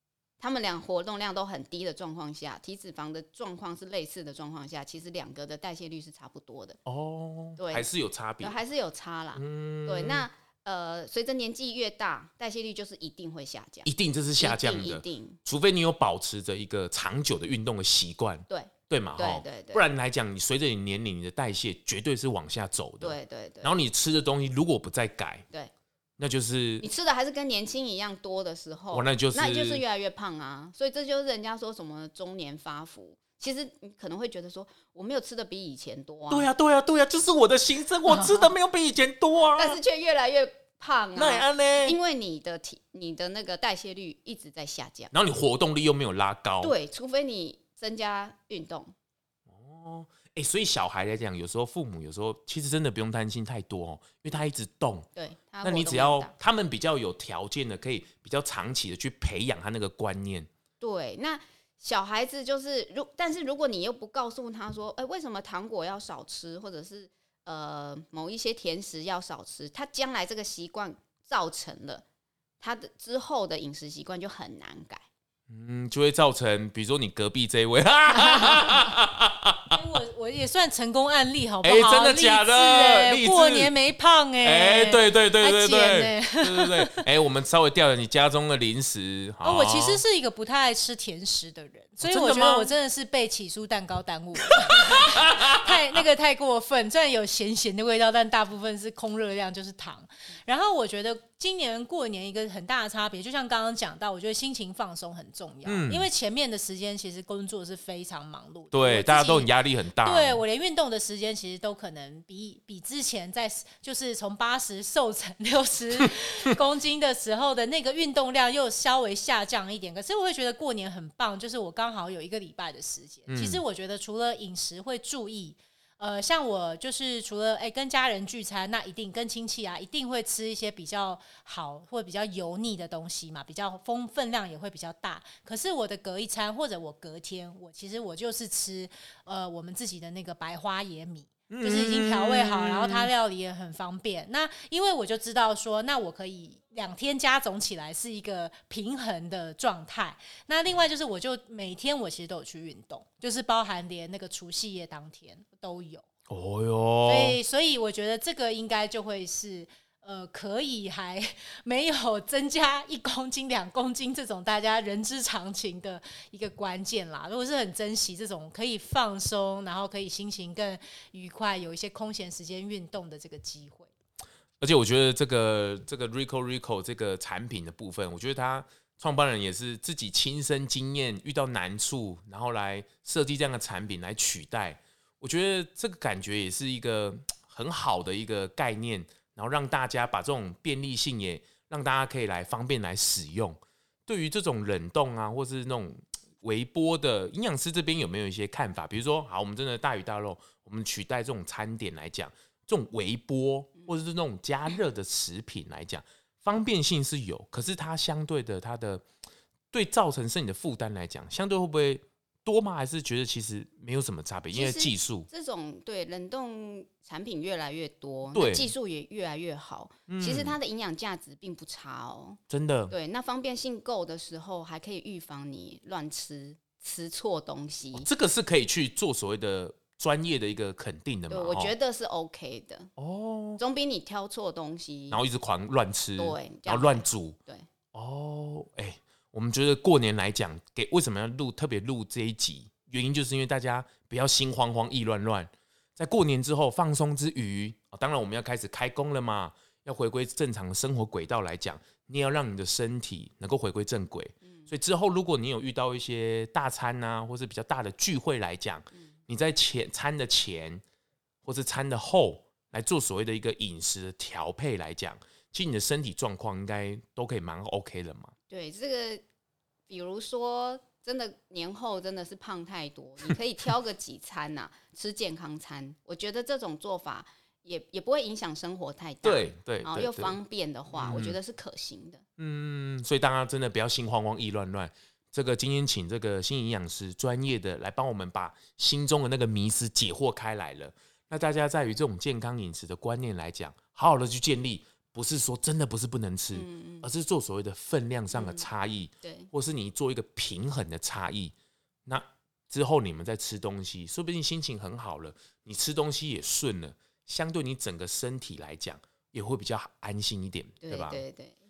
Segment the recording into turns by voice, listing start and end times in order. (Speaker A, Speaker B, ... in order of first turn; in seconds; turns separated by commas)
Speaker A: 0.4-6.8, Speaker B: 6.8-8.6, Speaker A: 7.6-15.4, Speaker B: 9.3-10.3, Speaker B: 13.8-25.4, Speaker A: 18.5-19.9, Speaker A: 23.0-23.7, Speaker B: 26.2-26.8, Speaker A: 26.8-36.5, Speaker B: 28.9-29.8, Speaker B: 36.3-39.8, Speaker A: 38.1-38.5, Speaker A: 39.5-45.1, Speaker B: 41.1-42.0, Speaker B: 45.1-46.7, Speaker A: 46.6-48.9, Speaker B: 49.5-55.0, Speaker A: 55.1-56.3, Speaker B: 55.6-60.5, Speaker A: 60.8-72.0, Speaker A: 72.6-75.0, Speaker B: 75.5-79.7, Speaker C: 78.2-78.5, Speaker C: 79.7-87.1, Speaker B: 81.6-83.7, Speaker B: 84.4-90.0, Speaker C: 89.4-156.0, Speaker B: 92.0-92.7, Speaker B: 94.6-95.5, Speaker B: 105.6-106.1, Speaker B: 108.7-110.4, Speaker B: 123.3-123.6, Speaker B: 141.5-143.1, Speaker B: 156.3-157.4, Speaker C: 157.1-173.9, Speaker B: 174.6-209.0, Speaker B: 209.7-215.3, Speaker A: 214.5-228.1, Speaker B: 218.3-218.7, Speaker B: 220.1-220.6, Speaker B: 222.5-222.9, Speaker B: 227.9-231.7, Speaker A: 231.3-232.9, Speaker B: 233.0-233.6, Speaker A: 233.6-235.2, Speaker B: 235.1-237.3, Speaker A: 236.2-237.7, Speaker B: 237.9-260.8, Speaker B: 261.4-268.3, Speaker A: 268.5-269.2, Speaker A: 269.9-282.2, Speaker B: 279.2-280.4, Speaker B: 280.9-281.4, Speaker B: 282.4-301.5, Speaker A: 296.5-297.1, Speaker A: 298.3-298.7, Speaker A: 299.2-299.5, Speaker B: 302.1-311.2, Speaker A: 310.8-311.5